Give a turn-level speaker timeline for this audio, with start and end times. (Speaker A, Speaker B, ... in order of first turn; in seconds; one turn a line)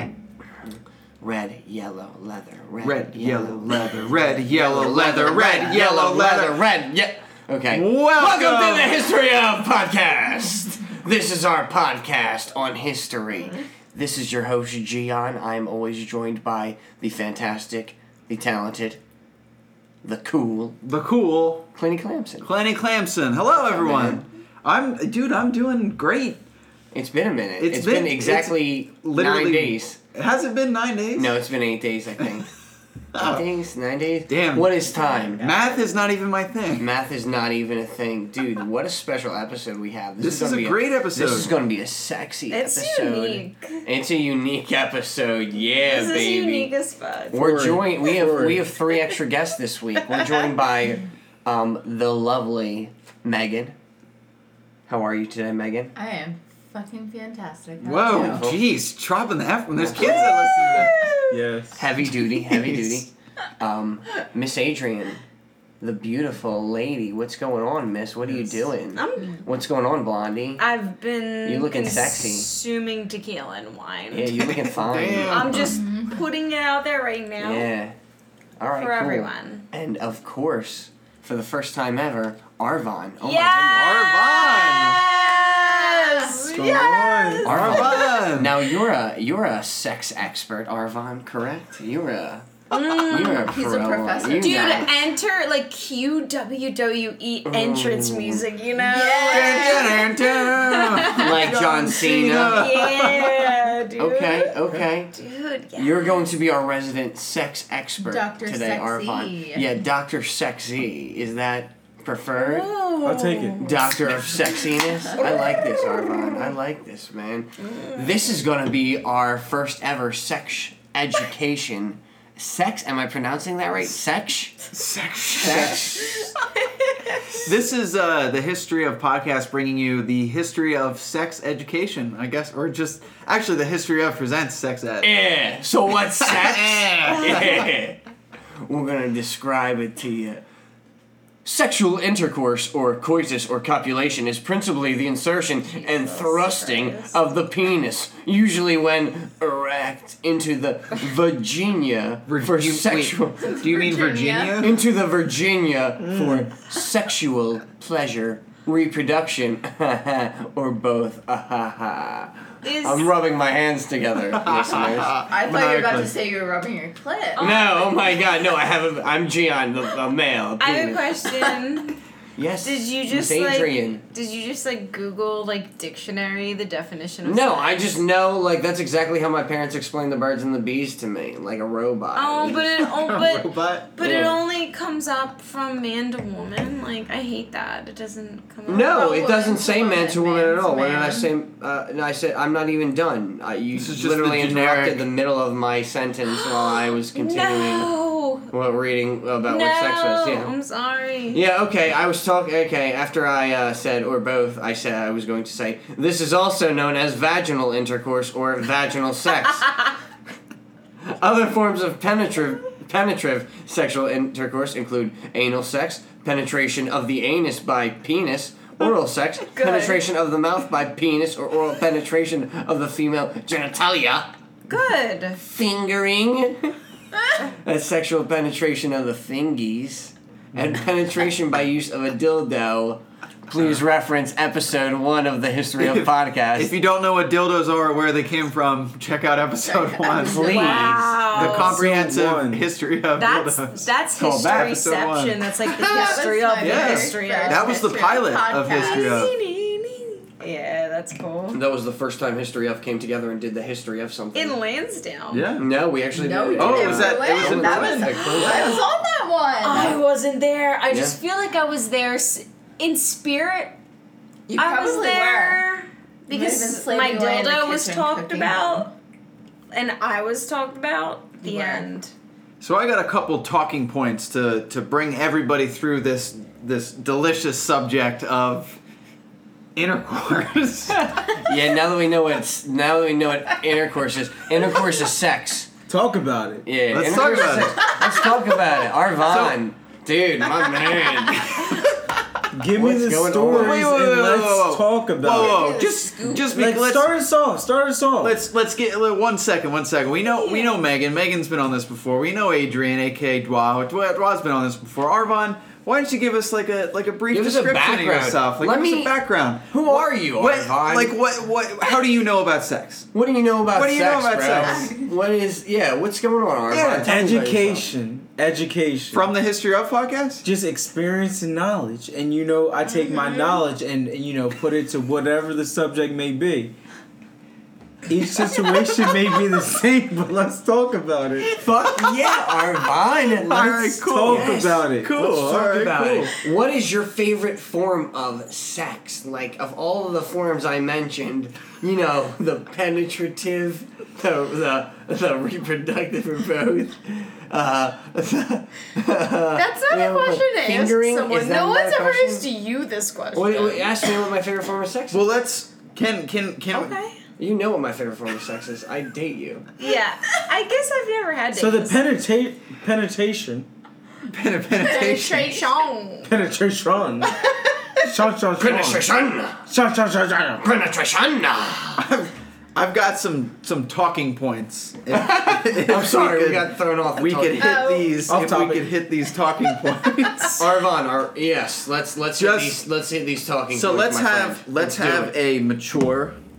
Speaker A: 1.2-19.0
Speaker B: 2.8-6.6
Speaker B: 7.7-9.0
Speaker A: 20.0-20.8
Speaker B: 20.8-21.7
Speaker A: 21.8-22.5
Speaker B: 22.4-26.4
Speaker A: 23.5-24.2
Speaker A: 26.9-30.0
Speaker B: 27.6-31.4
Speaker A: 31.1-32.5
Speaker B: 33.1-33.5
Speaker A: 33.2-35.5
Speaker B: 34.3-34.8
Speaker B: 35.4-36.9
Speaker A: 36.8-46.7
Speaker B: 40.2-41.5
Speaker C: 42.5-43.8
Speaker C: 45.9-47.5
Speaker A: 47.3-53.8
Speaker D: 47.4-48.7
Speaker C: 50.1-50.5
Speaker A: 54.9-55.9
Speaker E: 56.0-58.5
Speaker B: 57.8-61.1
Speaker A: 58.1-58.6
Speaker A: 59.8-60.4
Speaker E: 60.0-61.1
Speaker C: 60.3-61.0
Speaker D: 61.3-61.9
Speaker A: 61.8-65.2
Speaker A: 65.8-70.6
Speaker C: 69.0-69.4
Speaker C: 70.6-74.5
Speaker A: 71.5-72.5
Speaker A: 74.1-75.7
Speaker B: 74.9-75.4
Speaker D: 74.9-75.3
Speaker C: 75.2-77.7
Speaker E: 75.7-76.2
Speaker A: 77.4-78.0
Speaker A: 78.6-84.0
Speaker C: 78.8-79.7
Speaker C: 83.2-88.3
Speaker B: 83.7-85.0
Speaker E: 85.5-87.0
Speaker D: 86.5-87.7
Speaker A: 87.4-94.9
Speaker B: 87.5-88.6
Speaker C: 92.7-93.5
Speaker E: 93.1-94.9
Speaker C: 94.4-104.5
Speaker A: 97.5-98.4
Speaker E: 98.8-100.1
Speaker B: 99.3-103.5
Speaker A: 101.1-102.8
Speaker A: 104.0-105.1
Speaker C: 105.1-106.2
Speaker A: 105.8-112.7
Speaker E: 108.0-109.7
Speaker C: 112.3-114.4
Speaker D: 113.0-113.7
Speaker A: 113.6-124.6
Speaker C: 115.2-116.5
Speaker C: 117.6-118.2
Speaker B: 124.7-126.3
Speaker A: 125.3-126.3
Speaker C: 126.6-127.4
Speaker B: 127.3-135.2
Speaker A: 135.0-138.0
Speaker B: 136.2-137.7
Speaker A: 138.6-140.4
Speaker A: 141.4-153.7
Speaker C: 145.7-147.2
Speaker B: 152.3-154.8
Speaker E: 153.4-154.7
Speaker A: 154.6-165.2
Speaker D: 156.0-156.5
Speaker C: 162.6-163.2
Speaker B: 164.4-166.1
Speaker E: 165.3-167.6
Speaker C: 167.4-168.2
Speaker A: 167.4-171.3
Speaker C: 170.6-172.0
Speaker A: 172.4-174.0
Speaker C: 172.6-178.0
Speaker A: 177.2-182.7
Speaker C: 182.2-189.5
Speaker B: 182.6-183.9
Speaker A: 184.0-184.4
Speaker A: 188.7-197.9
Speaker E: 188.8-191.3
Speaker B: 193.7-195.1
Speaker C: 196.3-198.5
Speaker A: 198.5-200.5
Speaker C: 199.4-201.4
Speaker A: 201.3-209.7
Speaker A: 211.1-224.4
Speaker C: 219.6-220.0
Speaker C: 224.7-225.4
Speaker A: 225.5-226.8
Speaker A: 227.4-236.8
Speaker B: 235.8-249.3
Speaker E: 239.8-240.2
Speaker C: 240.2-241.8
Speaker A: 240.2-241.3
Speaker D: 241.3-242.7
Speaker C: 243.2-251.6
Speaker E: 245.8-249.3
Speaker A: 251.5-254.6
Speaker C: 254.3-255.5
Speaker B: 255.3-255.7
Speaker A: 255.6-258.8
Speaker E: 256.1-260.0
Speaker B: 256.6-258.8
Speaker C: 258.5-258.8
Speaker C: 259.6-263.8
Speaker A: 260.9-261.2
Speaker E: 264.5-265.6
Speaker C: 264.6-268.9
Speaker E: 266.3-268.9
Speaker C: 269.7-272.1
Speaker E: 271.4-271.8
Speaker B: 272.6-278.8
Speaker B: 279.8-281.3
Speaker A: 281.0-285.7
Speaker D: 285.9-286.7
Speaker A: 286.7-291.8
Speaker B: 286.9-288.0
Speaker B: 289.2-289.6
Speaker B: 291.4-292.1
Speaker D: 292.5-295.8
Speaker A: 292.8-293.9
Speaker B: 293.5-297.1
Speaker C: 295.5-296.4
Speaker E: 295.7-296.3
Speaker D: 296.4-298.4
Speaker B: 298.2-313.1
Speaker C: 300.2-300.8
Speaker A: 307.3-309.1
Speaker A: 309.7-311.2
Speaker A: 313.1-317.9
Speaker B: 313.7-314.9
Speaker E: 314.7-315.0
Speaker B: 316.7-317.1
Speaker D: 317.0-319.3
Speaker B: 319.1-320.4
Speaker D: 320.4-326.8
Speaker C: 323.2-323.6
Speaker D: 328.1-331.5
Speaker B: 328.6-329.0
Speaker A: 331.5-352.5
Speaker B: 333.3-336.3
Speaker D: 333.6-335.1
Speaker C: 349.6-354.2
Speaker A: 353.3-355.3
Speaker B: 355.1-357.0
Speaker C: 356.7-357.2
Speaker A: 357.4-359.7
Speaker C: 359.8-362.1
Speaker D: 361.5-363.7
Speaker B: 364.3-365.7
Speaker C: 364.7-366.3
Speaker D: 366.2-367.3
Speaker C: 367.3-367.8
Speaker D: 368.0-369.1
Speaker A: 368.6-369.7
Speaker D: 369.7-370.7
Speaker A: 370.6-372.1
Speaker B: 372.0-380.7
Speaker A: 375.1-377.9
Speaker E: 377.6-378.1
Speaker D: 378.2-379.0
Speaker A: 380.6-385.4
Speaker B: 382.4-382.8
Speaker B: 383.7-386.4